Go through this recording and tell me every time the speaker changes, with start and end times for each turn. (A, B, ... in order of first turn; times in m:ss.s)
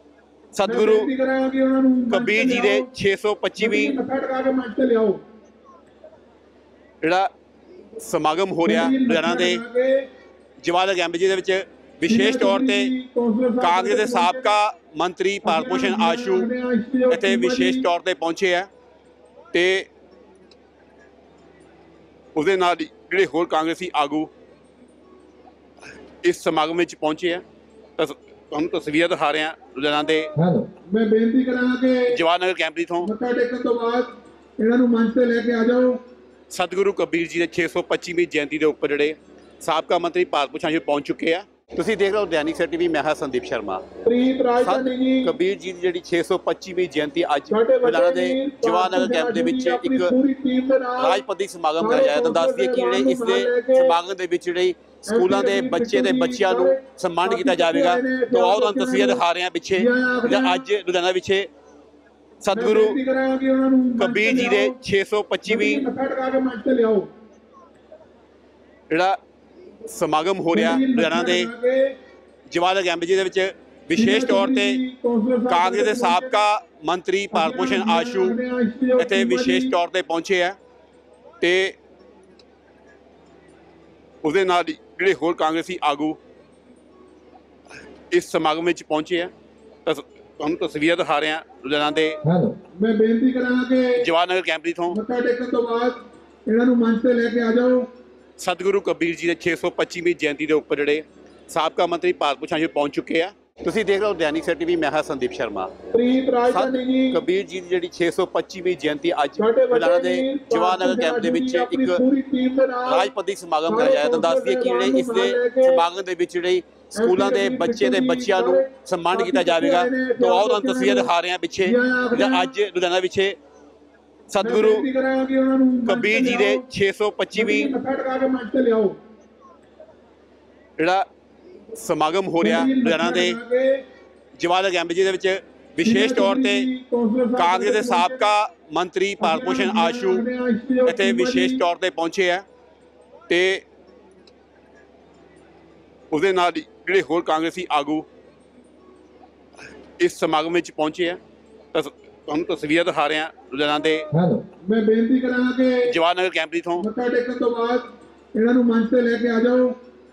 0:00.5-0:01.1 A
0:00.6-0:02.9 B
0:02.1-0:04.0 A
0:03.6-0:05.2 B
0:07.0-0:07.3 A
0:08.0-0:09.6 A
0:08.6-0:10.0 B
0:10.6-0:12.9 A
0:12.1-0:14.4 B
0:13.6-0:16.5 A
0:15.4-0:17.9 B
0:17.1-0:18.7 A
0:19.5-0:19.9 A
0:22.3-0:24.3 A
0:26.2-0:27.4 A
0:28.0-0:30.4 A
0:30.9-0:32.2 B
0:32.1-0:33.1 A
0:33.0-0:36.0 B
0:36.5-0:43.8 A
0:44.0-0:45.3 B
0:44.6-0:50.1 A
0:47.5-0:51.2 B
0:51.0-1:01.5 A
0:51.8-0:53.9 B
0:55.1-0:59.2 B
0:59.7-1:00.6 B
1:02.4-1:03.0 A
1:02.5-1:04.7 B
1:04.0-1:05.8 A
1:05.4-1:07.1 B
1:08.9-1:09.2 A
1:09.8-1:11.5 A
1:10.5-1:11.9 B
1:12.5-1:14.8 A
1:13.9-1:16.3 B
1:15.5-1:18.4 A
1:17.3-1:19.7 B
1:19.0-1:20.6 A
1:21.4-1:21.8 A
1:24.2-1:26.2 A
1:28.1-1:29.3 A
1:29.8-1:32.3 A
1:32.7-1:34.0 B
1:34.0-1:35.0 A
1:34.9-1:37.9 B
1:38.4-1:45.7 A
1:45.9-1:47.2 B
1:46.5-1:52.0 A
1:49.4-1:53.1 B
1:52.9-2:03.4 A
1:53.7-1:55.8 B
1:57.0-2:01.1 B
2:01.6-2:02.5 B
2:04.3-2:04.8 A
2:04.4-2:06.6 B
2:05.8-2:07.7 A
2:07.3-2:08.9 B
2:10.8-2:11.0 A
2:11.7-2:13.4 A
2:12.4-2:13.8 B
2:14.4-2:16.7 A
2:15.8-2:18.2 B
2:17.4-2:20.2 A
2:19.2-2:21.6 B
2:20.8-2:22.4 A
2:23.3-2:23.6 A
2:26.1-2:28.0 A
2:30.0-2:31.2 A
2:31.7-2:34.2 A
2:34.6-2:35.9 B
2:35.8-2:36.9 A
2:36.8-2:39.8 B